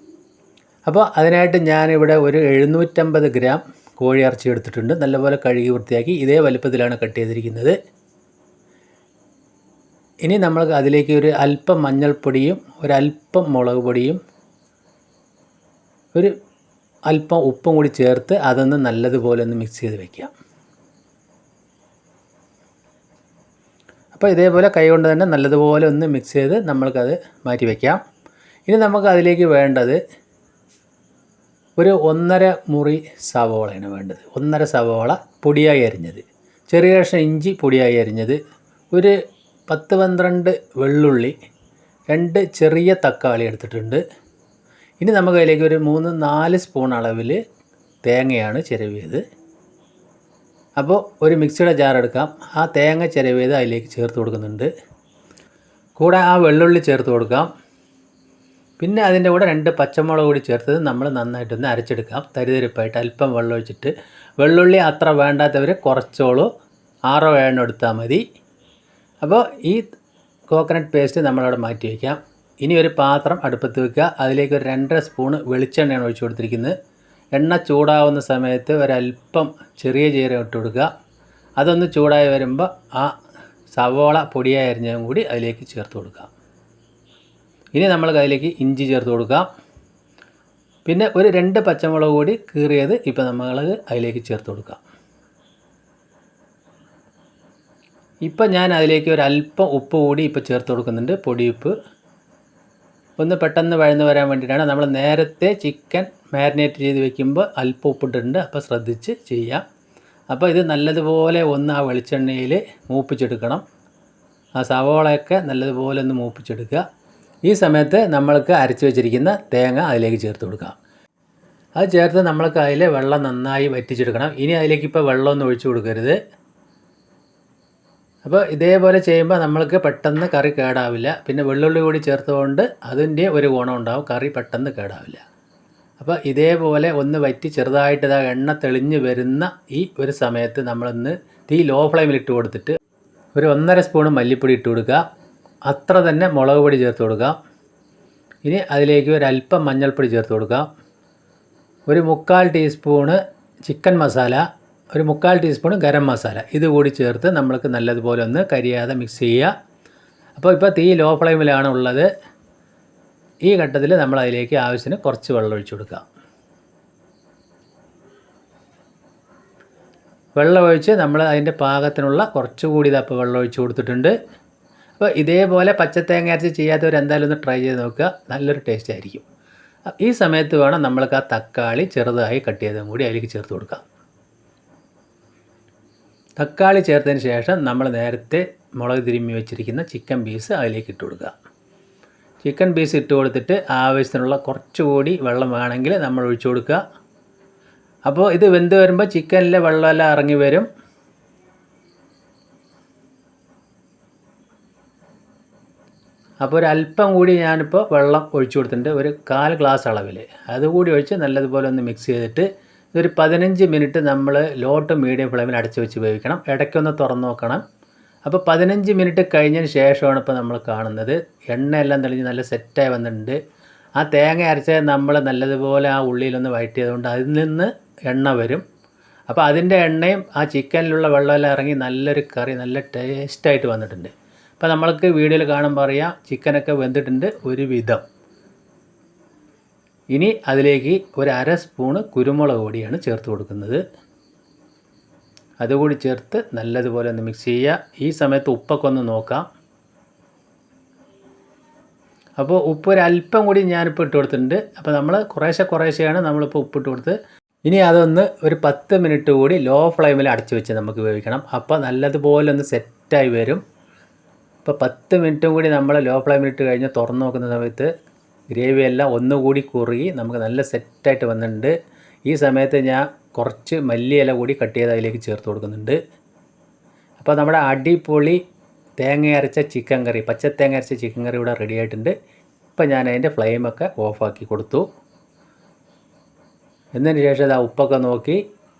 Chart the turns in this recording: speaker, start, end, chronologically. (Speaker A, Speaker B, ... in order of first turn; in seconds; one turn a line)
Speaker A: 0.9-7.8
Speaker A: 10.3-14.2
Speaker A: 17.1-20.3
Speaker A: 24.1-28.0
Speaker A: 28.7-30.0
Speaker A: 31.8-38.4
Speaker A: 39.7-41.4
Speaker A: 42.1-44.0
Speaker A: 45.0-47.4
Speaker A: 48.0-49.2
Speaker A: 50.8-54.7
Speaker A: 56.0-57.5
Speaker A: 58.8-66.5
Speaker A: 67.1-68.2
Speaker A: 69.2-69.8
Speaker A: 70.5-76.8
Speaker A: 77.3-80.9
Speaker A: 81.6-83.1
Speaker A: 83.8-86.3
Speaker A: 87.8-89.5
Speaker A: 90.9-94.8
Speaker A: 98.3-101.8
Speaker A: 103.2-109.6
Speaker A: 110.3-113.6
Speaker A: 114.6-116.8
Speaker A: 117.5-120.8
Speaker A: 121.8-126.2
Speaker A: 128.2-135.2
Speaker A: 136.0-142.8
Speaker A: 143.3-145.0
Speaker A: 145.7-147.4
Speaker A: 148.5-150.7
Speaker A: 151.9-154.4
Speaker A: 154.9-159.5
Speaker A: 160.4-162.1
Speaker A: 163.5-166.0
Speaker A: 170.4-174.1
Speaker A: 175.0-179.2
Speaker A: 180.0-183.8
Speaker A: 186.4-191.3
Speaker A: 192.4-196.8
Speaker A: 198.1-200.7
Speaker A: 206.4-217.6
Speaker A: 218.3-223.4
Speaker A: 224.0-228.6
Speaker A: 229.3-238.0
Speaker A: 240.1-243.8
Speaker A: 245.6-249.5
Speaker A: 252.4-257.2
Speaker A: 257.7-263.6
Speaker A: 264.6-267.9
Speaker A: 268.5-271.7
Speaker A: 272.3-276.0
Speaker A: 277.2-278.4
Speaker A: 279.0-282.1
Speaker A: 282.8-284.9
Speaker A: 286.9-288.4